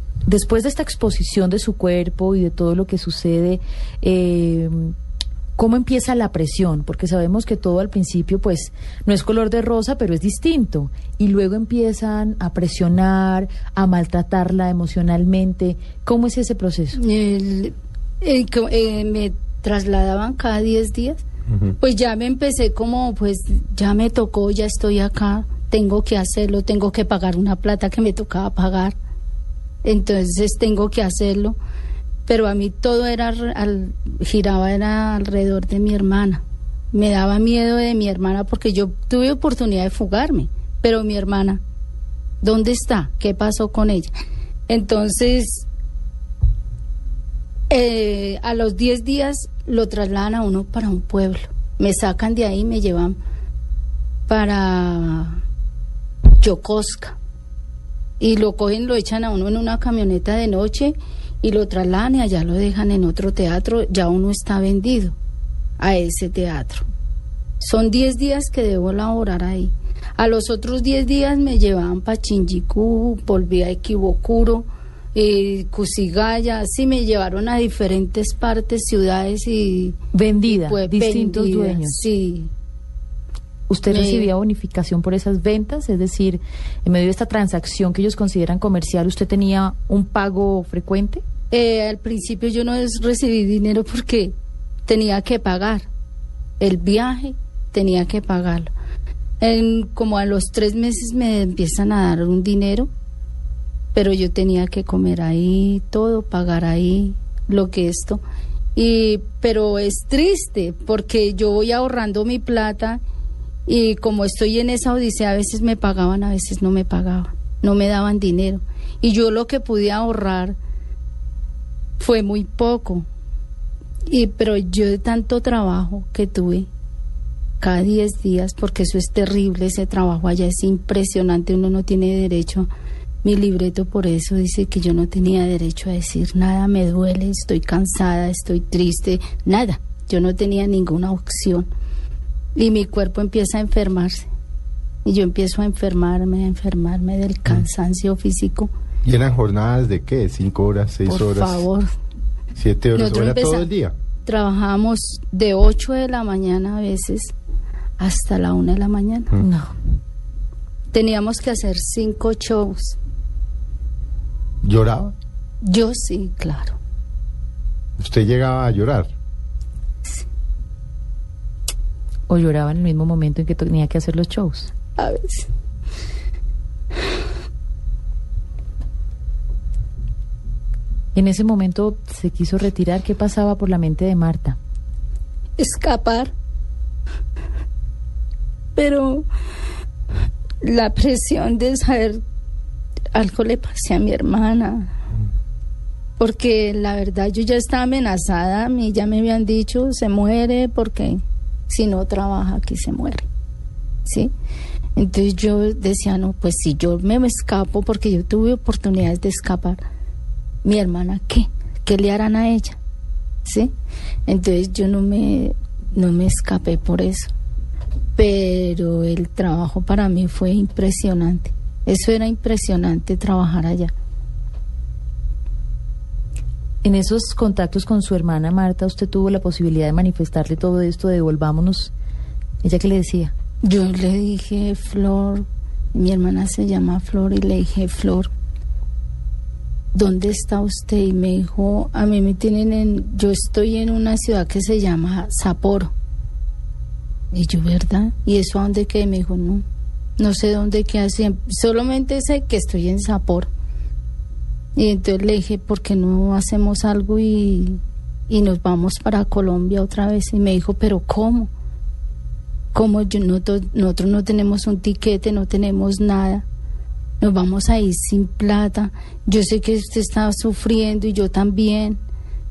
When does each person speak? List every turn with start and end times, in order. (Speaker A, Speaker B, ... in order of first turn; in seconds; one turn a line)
Speaker A: 0.2-4.9
Speaker A: 5.6-17.0
Speaker B: 16.9-21.2
Speaker C: 21.5-21.8
Speaker B: 21.8-29.0
Speaker B: 29.8-31.6
Speaker B: 32.3-36.4
Speaker B: 36.9-41.6
Speaker B: 42.4-44.1
Speaker B: 44.7-45.6
Speaker B: 47.7-53.2
Speaker B: 54.3-55.4
Speaker B: 56.4-57.2
Speaker B: 58.2-65.2
Speaker B: 65.8-66.8
Speaker B: 67.6-82.5
Speaker A: 80.1-82.0
Speaker A: 83.7-91.2
Speaker B: 83.9-84.3
Speaker B: 91.5-94.3
Speaker B: 94.9-95.9
Speaker B: 96.6-98.7
Speaker B: 99.4-102.9
Speaker B: 103.9-108.2
Speaker B: 108.8-113.0
Speaker B: 113.7-120.6
Speaker B: 122.0-123.1
Speaker B: 124.1-126.7
Speaker B: 127.6-132.7
Speaker B: 133.2-141.7
Speaker B: 142.5-144.3
Speaker B: 145.0-148.7
Speaker C: 149.0-151.6
Speaker B: 151.1-151.9
Speaker C: 152.6-153.9
Speaker B: 152.9-153.7
Speaker B: 154.2-157.3
Speaker B: 158.0-159.3
Speaker A: 159.4-159.7
Speaker B: 160.9-163.0
Speaker C: 164.6-165.1
Speaker B: 165.6-166.8
Speaker C: 168.0-169.1
Speaker A: 172.3-174.7
Speaker B: 175.0-175.5
Speaker A: 181.1-184.6
Speaker B: 185.6-186.3
Speaker B: 188.8-189.3
Speaker B: 190.6-192.2
Speaker B: 193.1-194.9
Speaker B: 196.2-203.3
Speaker B: 204.0-204.3
Speaker B: 204.9-209.8
Speaker B: 210.6-212.8
Speaker B: 213.4-213.7
Speaker B: 214.3-217.3
Speaker B: 218.2-223.9
Speaker A: 226.8-231.9
Speaker A: 232.6-233.3
Speaker B: 233.6-238.3
Speaker B: 239.9-245.9
Speaker B: 247.3-249.6
Speaker B: 250.2-253.5
Speaker B: 254.8-261.5
Speaker B: 262.7-266.4
Speaker B: 267.2-272.0